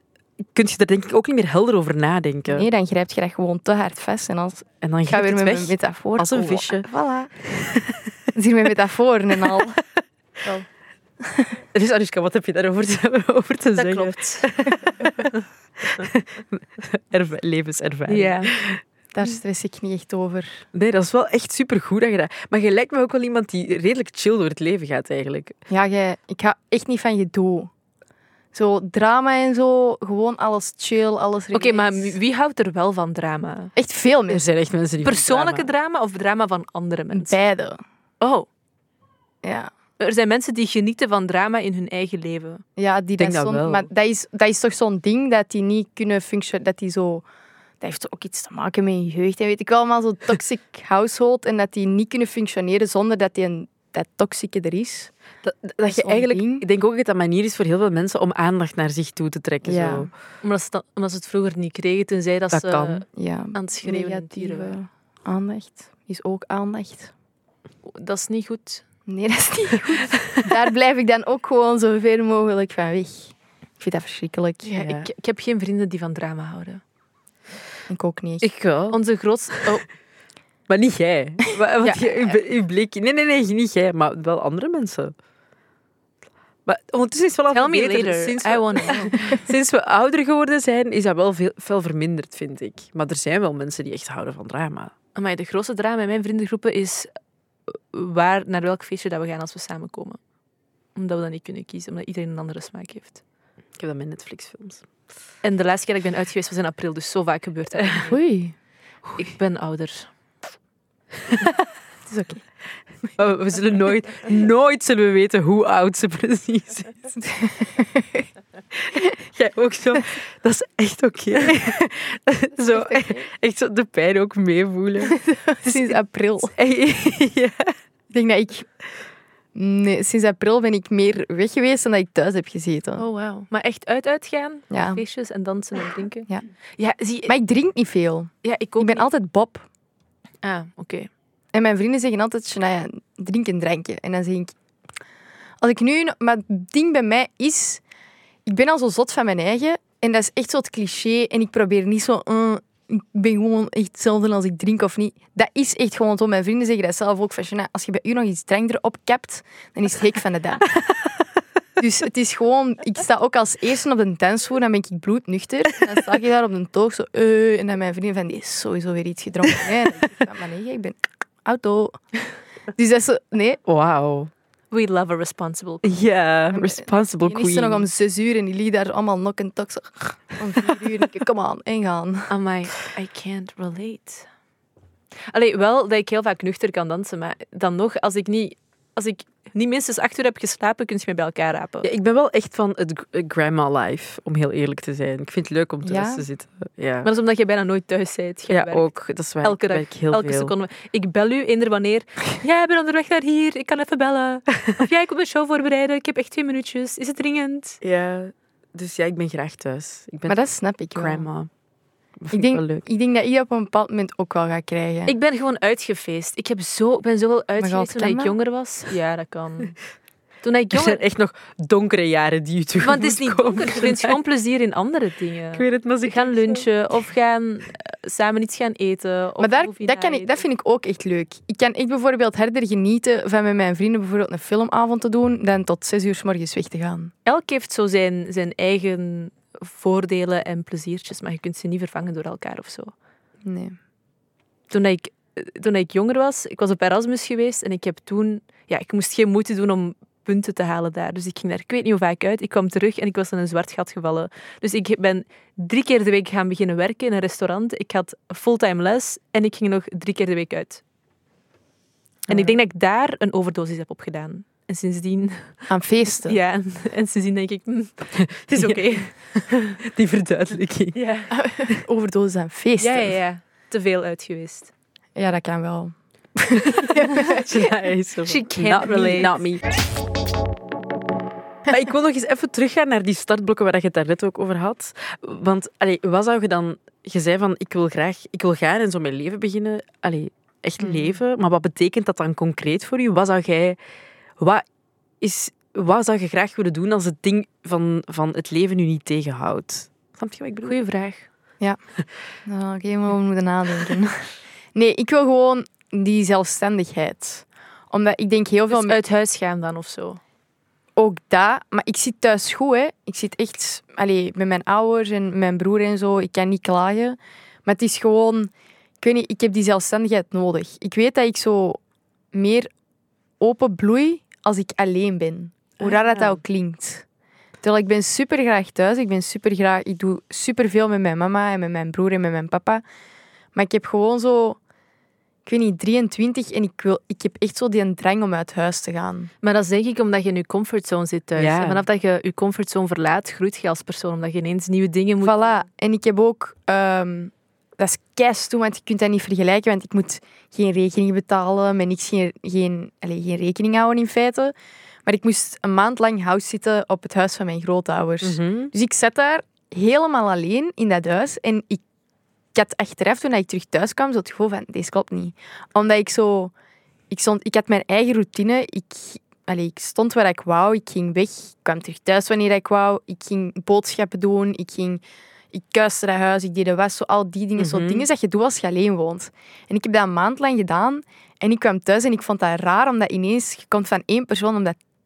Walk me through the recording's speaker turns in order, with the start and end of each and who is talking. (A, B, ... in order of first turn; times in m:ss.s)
0:00.5-0:02.7 A
0:02.5-0:07.3 B
0:04.8-0:06.9 A
0:07.4-0:08.1 A
0:08.3-0:09.8 B
0:11.2-0:11.6 B
0:11.7-0:15.3 A
0:13.8-0:14.5 C
0:15.8-0:18.8 A
0:18.1-0:18.5 C
0:19.1-0:20.6 B
0:20.7-0:25.6 A
0:25.7-0:27.7 B
0:28.5-0:32.1 B
0:31.5-0:33.7 C
0:33.8-0:34.4 B
0:34.3-0:35.7 A
0:35.0-0:37.4 C
0:37.1-0:37.8 B
0:38.2-0:38.5 C
0:39.4-0:39.7 B
0:40.0-0:42.6 C
0:42.8-0:47.2 B
0:43.2-0:43.9 A
0:47.8-0:55.1 B
0:55.4-1:00.1 A
0:55.8-0:56.6 B
0:59.6-1:00.1 B
1:00.4-1:04.8 C
1:02.5-1:03.0 A
1:03.1-1:07.1 B
1:07.8-1:08.8 C
1:09.1-1:14.8 B
1:14.6-1:16.8 C
1:14.8-1:15.1 A
1:17.9-1:18.5 B
1:18.4-1:19.0 A
1:18.9-1:19.8 C
1:20.7-1:25.1 A
1:26.7-1:34.9 A
1:27.5-1:29.4 C
1:35.1-1:37.1 C
1:37.7-1:40.2 C
1:41.0-1:43.2 C
1:43.8-1:44.8 A
1:45.4-1:48.2 C
1:48.1-1:48.5 B
1:49.2-1:50.1 C
1:52.1-1:52.4 B
1:53.2-1:56.9 A
1:57.2-1:58.2 B
1:58.8-2:05.2 A
2:02.7-2:03.3 B
2:05.0-2:06.6 B
2:06.6-2:07.7 A
2:08.1-2:08.7 B
2:09.6-2:13.0 B
2:13.0-2:17.3 C
2:14.7-2:15.0 B
2:17.3-2:19.6 B
2:18.4-2:19.1 C
2:20.4-2:21.1 C
2:21.5-2:24.5 B
2:25.6-2:27.8 B
2:28.4-2:40.8 B
2:41.8-2:52.0 B
2:52.8-2:53.6 B
2:53.6-2:54.3 A
2:54.7-2:55.9 C
2:55.8-2:57.9 A
2:56.5-3:02.3 B
3:02.3-3:04.3 C
3:05.3-3:11.9 C
3:11.8-3:17.1 A
3:15.8-3:16.2 B
3:17.0-3:18.9 C
3:18.5-3:20.5 A
3:19.4-3:27.8 C
3:27.8-3:30.4 A
3:30.3-3:31.3 B
3:30.9-3:31.5 A
3:32.2-3:32.8 A
3:32.3-3:35.1 B
3:35.1-3:39.8 C
3:37.6-3:38.3 B
3:40.4-3:41.0 C
3:40.7-3:44.2 A
3:42.8-3:50.4 C
3:45.6-3:46.6 A
3:49.4-3:57.1 B
3:57.3-4:02.9 C
4:03.4-4:03.8 B
4:04.7-4:20.8 C
4:22.3-4:25.6 C
4:25.7-4:26.4 B
4:26.2-4:29.8 C
4:28.2-4:31.0 A
4:30.9-4:31.3 C
4:31.3-4:33.2 B
4:32.8-4:34.7 C
4:35.2-4:37.5 B
4:36.6-4:39.8 A
4:38.3-4:39.3 C
4:41.7-4:53.8 A
4:54.4-4:54.6 A
4:55.2-5:00.8 A
5:00.6-5:01.3 C
5:02.4-5:09.0 B
5:08.7-5:10.2 C
5:11.0-5:21.8 B
5:22.3-5:22.7 B
5:23.4-5:27.0 B
5:27.6-5:32.8 B
5:33.6-5:34.6 B
5:35.4-5:39.3 B
5:39.4-5:45.6 C
5:41.4-5:41.8 A
5:45.2-5:54.5 B
5:55.1-6:01.8 B
5:58.2-5:58.7 A
6:02.5-6:06.5 B
6:07.1-6:24.8 B
6:17.6-6:18.1 A